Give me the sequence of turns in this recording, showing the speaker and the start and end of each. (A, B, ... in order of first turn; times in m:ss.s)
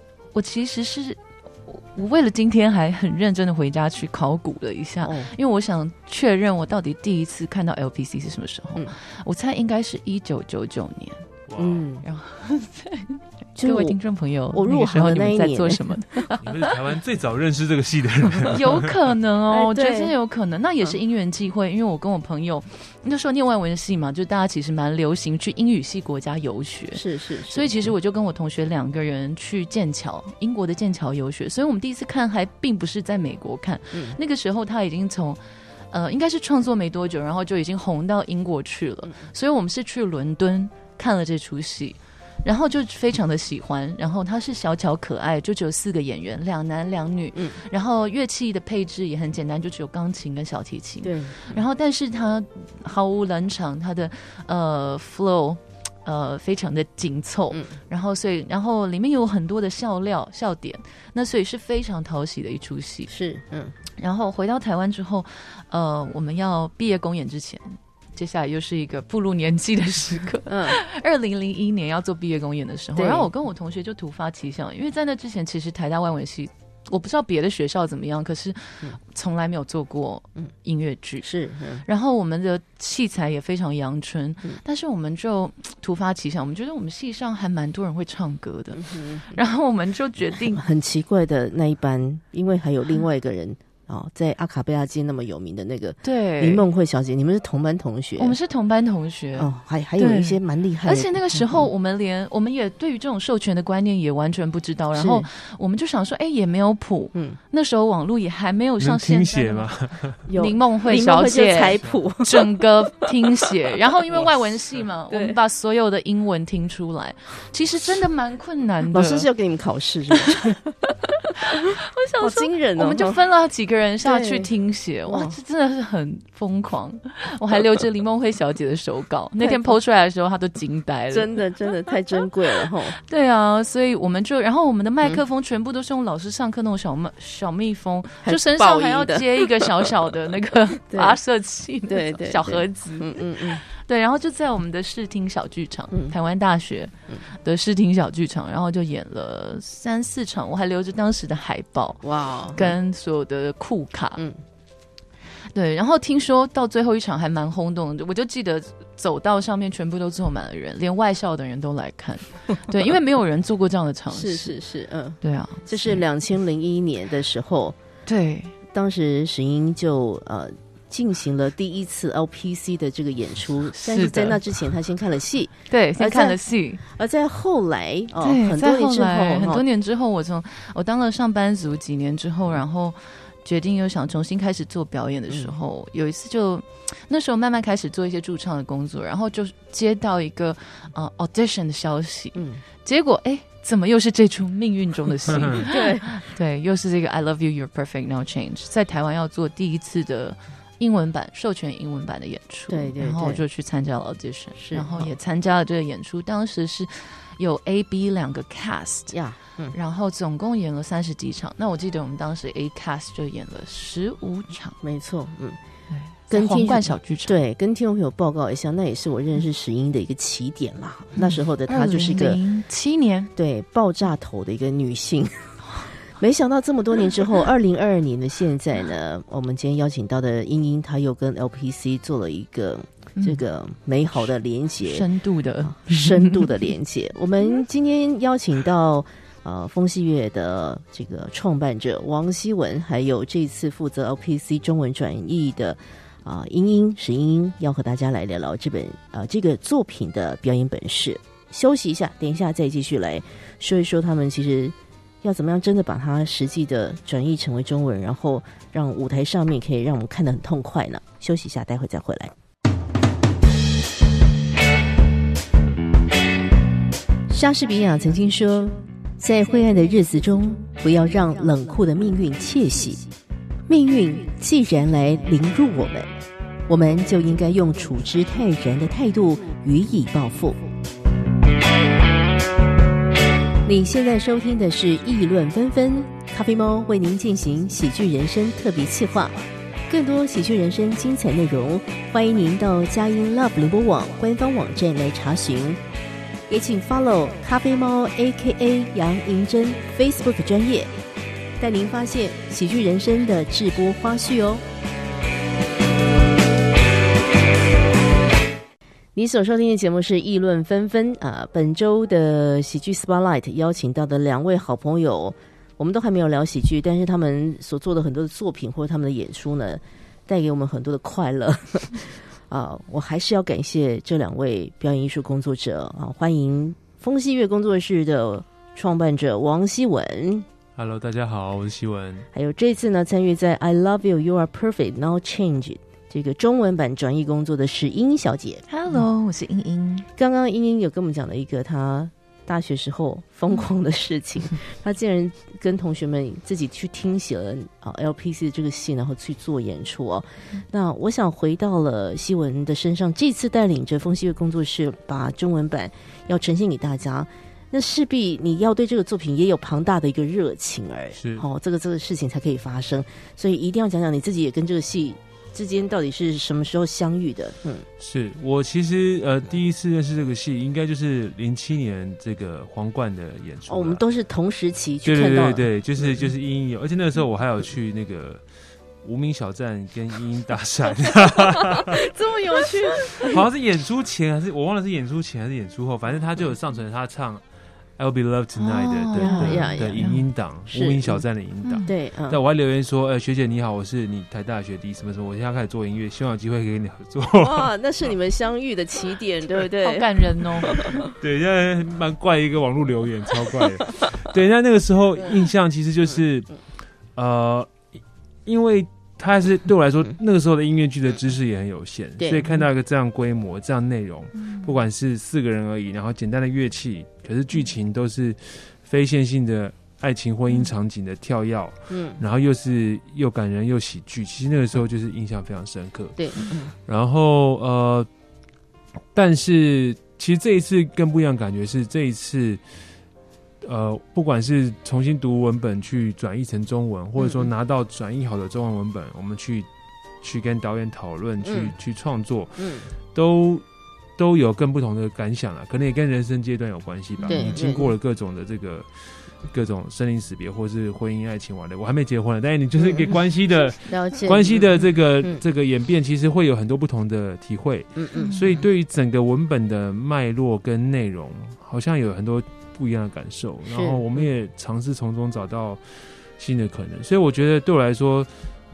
0:00.3-0:11.3 A
0:05.0-0:05.3 B
0:11.5-0:11.8 C
0:11.6-0:12.0 B
0:12.0-0:16.4 A
0:13.6-0:14.0 B
0:14.5-0:16.4 B
0:16.4-0:18.9 C
0:18.5-1:03.1 A
0:19.5-0:20.1 B
0:26.9-0:27.7 B
0:51.0-0:51.6 B
0:57.5-0:57.8 B
1:03.1-1:03.8 B
1:04.0-1:21.3 A
1:10.5-1:10.8 B
1:13.0-1:13.3 B
1:21.2-1:21.8 B
1:21.8-1:30.6 A
1:28.8-1:29.3 B
1:30.5-1:38.4 B
1:36.0-1:36.6 A
1:38.2-1:59.3 A
1:39.4-1:41.6 B
1:44.9-1:45.3 B
1:48.8-1:50.2 C
1:50.3-1:52.6 B
1:55.1-1:55.4 B
1:58.9-2:01.3 B
2:01.5-2:11.4 A
2:02.2-2:03.2 B
2:04.0-2:04.5 B
2:05.1-2:05.4 B
2:09.4-2:09.7 B
2:11.1-2:13.0 B
2:13.0-2:34.2 A
2:18.2-2:19.9 B
2:20.9-2:21.2 B
2:21.9-2:23.6 B
2:25.9-2:26.2 B
2:32.0-2:32.8 B
2:35.5-2:44.6 A
2:44.1-2:47.8 B
2:45.2-2:46.0 A
2:48.1-2:48.5 A
2:48.7-2:59.6 B
2:53.7-2:54.4 A
2:55.7-2:56.8 A
2:58.2-3:29.2 A
3:05.3-3:05.6 B
3:12.4-3:12.6 B
3:15.6-3:16.2 B
3:22.7-3:23.4 B
3:24.6-3:25.1 B
3:29.1-3:29.8 B
3:29.7-3:34.8 A
3:34.8-3:35.6 B
3:35.9-3:37.3 A
3:36.3-3:42.4 B
3:41.2-3:43.3 A
3:43.4-3:55.1 B
3:53.2-3:53.4 A
3:54.8-3:56.5 A
3:55.6-4:22.3 B
4:27.3-4:33.1 B
4:33.7-4:40.6 B
4:43.6-4:49.4 B
4:49.9-4:55.8 B
4:56.5-5:00.9 B
5:01.6-5:04.6 B
5:09.2-5:30.5 B
5:30.8-5:32.3 C
5:32.3-5:38.6 B
5:38.7-5:40.1 A
5:40.2-6:07.9 B
6:01.2-6:01.5 C
6:08.0-6:14.0 C
6:13.7-6:16.1 B
6:15.0-6:18.4 C
6:19.0-6:22.1 C
6:21.7-6:23.4 B
6:23.2-6:27.4 C
6:28.0-6:38.1 C
6:28.6-6:30.2 A
6:29.2-6:30.0 B
6:30.7-6:31.2 B
6:31.6-6:31.9 A
6:31.9-6:32.4 B
6:37.4-6:41.1 B
6:39.8-6:40.7 A
6:40.7-6:47.8 C
6:48.5-7:08.1 C
6:52.2-6:52.4 B
7:01.9-7:02.2 B
7:06.2-7:06.7 B
7:09.1-7:12.6 C
7:13.6-7:19.7 C
7:17.2-7:17.5 B
7:20.2-7:23.6 C
7:21.4-7:21.7 B
7:22.6-7:22.9 B
7:24.2-7:48.3 C
7:27.3-7:27.6 A
7:27.3-7:27.9 B
7:32.8-7:33.2 B
7:33.8-7:35.4 B
7:38.0-7:38.6 B
7:43.7-7:44.2 B